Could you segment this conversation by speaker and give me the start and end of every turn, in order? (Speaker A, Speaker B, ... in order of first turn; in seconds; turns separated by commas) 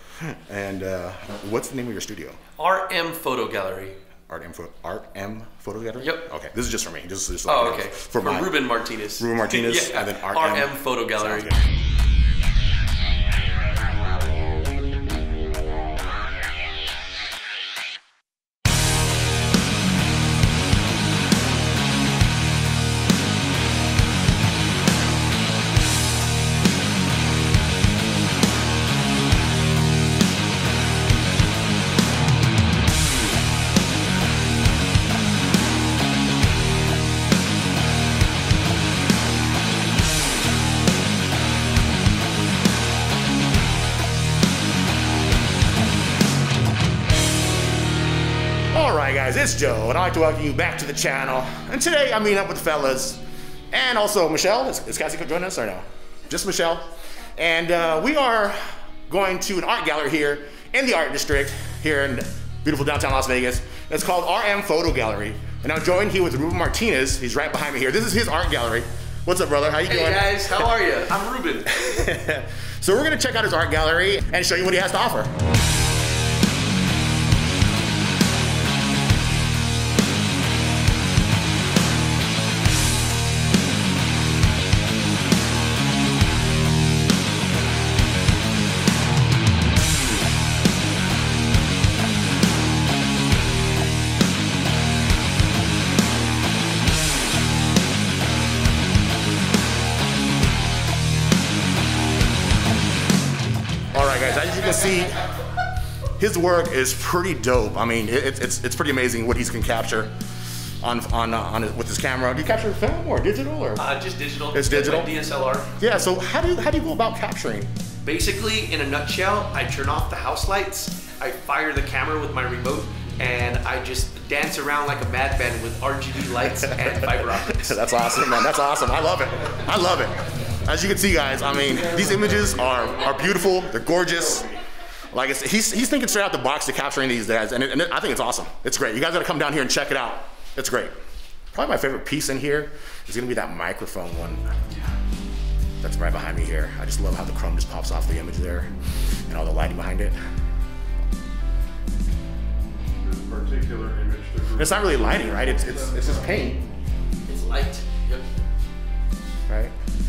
Speaker A: 0.2-2.4, Speaker B: 2.6-4.0, Speaker A: 4.3-8.6, Speaker B: 6.0-6.3, Speaker B: 7.5-11.5, Speaker A: 9.2-11.6, Speaker A: 48.7-70.7, Speaker B: 69.9-71.7, Speaker A: 71.7-75.3, Speaker A: 103.9-105.3, Speaker A: 106.2-110.1, Speaker A: 110.8-113.8, Speaker B: 113.8-115.7, Speaker A: 114.5-115.1, Speaker A: 115.8-117.7, Speaker B: 118.0-127.8, Speaker A: 126.6-127.0, Speaker A: 127.6-134.6, Speaker A: 135.1-140.9, Speaker A: 141.5-144.4, Speaker A: 145.8-148.7, Speaker A: 149.3-150.2, Speaker C: 152.9-156.4, Speaker A: 154.6-156.6, Speaker B: 157.2-158.3, Speaker A: 159.5-159.7